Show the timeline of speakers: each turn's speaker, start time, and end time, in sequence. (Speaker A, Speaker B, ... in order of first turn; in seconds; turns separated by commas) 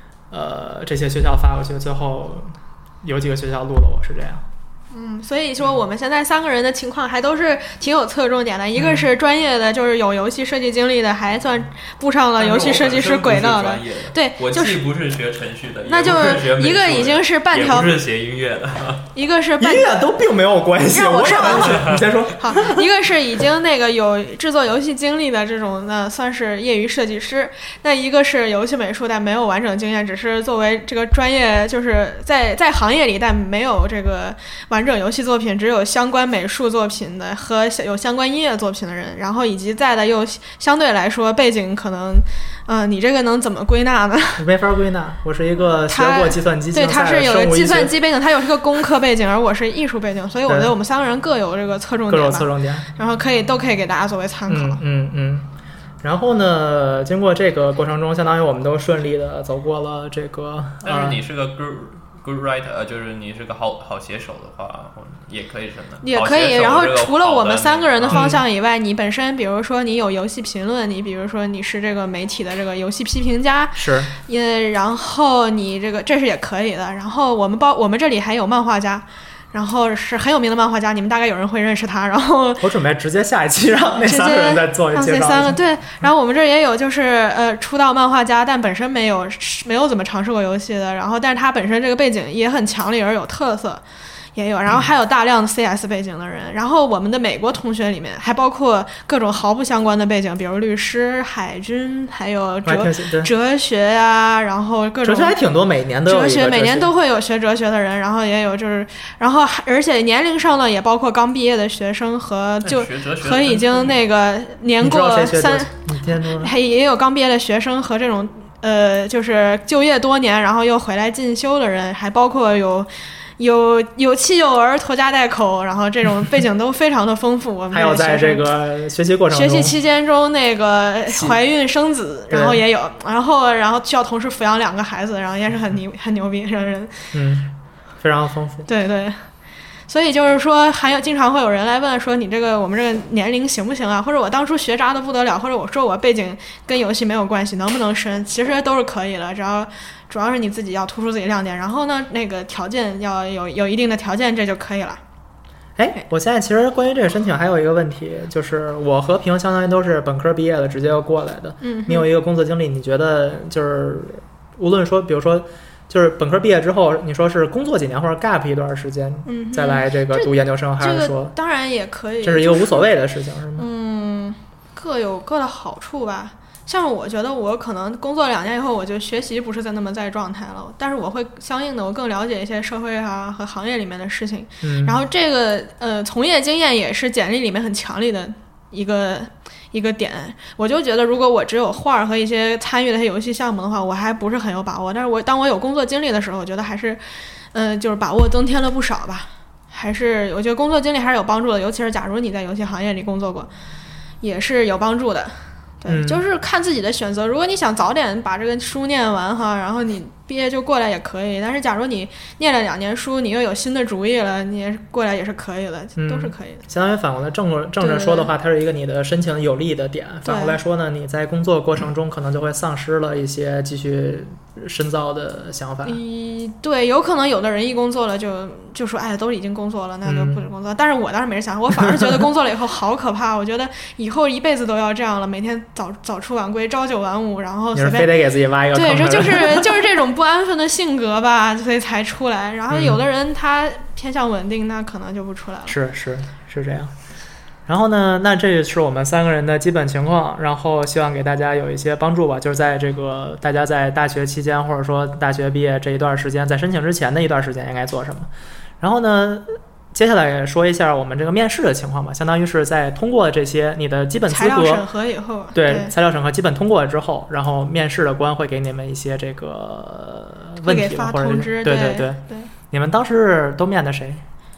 Speaker A: 0.3-4.4, Speaker B: 4.9-14.9, Speaker A: 8.8-9.1, Speaker C: 12.4-19.1, Speaker B: 15.9-18.0, Speaker B: 19.1-20.0, Speaker A: 19.6-22.8, Speaker B: 20.9-44.4, Speaker C: 21.8-22.0, Speaker A: 44.4-47.9, Speaker B: 45.8-54.8, Speaker A: 50.5-50.7, Speaker A: 52.1-52.9, Speaker A: 54.5-55.5, Speaker A: 56.0-61.2, Speaker C: 60.8-68.3, Speaker B: 66.0-82.7, Speaker A: 68.1-68.4, Speaker A: 73.8-74.1, Speaker A: 82.6-85.6, Speaker B: 83.9-93.8, Speaker B: 94.3-105.4, Speaker A: 102.7-103.3, Speaker A: 105.0-106.9, Speaker B: 106.1-128.5, Speaker C: 112.6-114.0, Speaker A: 114.8-116.5, Speaker A: 127.7-129.7, Speaker B: 129.3-137.1, Speaker A: 131.1-131.4, Speaker A: 132.3-132.6, Speaker A: 137.1-138.7, Speaker B: 138.7-139.3, Speaker B: 139.9-155.0, Speaker A: 155.8-171.3, Speaker B: 161.6-162.1, Speaker B: 169.3-172.9, Speaker A: 172.2-173.7, Speaker B: 173.6-203.5, Speaker A: 184.6-185.0, Speaker B: 204.2-216.7, Speaker A: 205.9-206.2, Speaker A: 216.0-226.0, Speaker B: 217.8-218.3, Speaker B: 220.2-220.6, Speaker B: 225.8-245.8, Speaker A: 230.1-230.4, Speaker A: 237.8-239.7, Speaker A: 242.7-243.0, Speaker A: 245.7-246.9, Speaker A: 247.7-258.3, Speaker A: 258.8-264.8, Speaker B: 264.3-265.9, Speaker A: 265.6-274.2, Speaker B: 270.6-272.5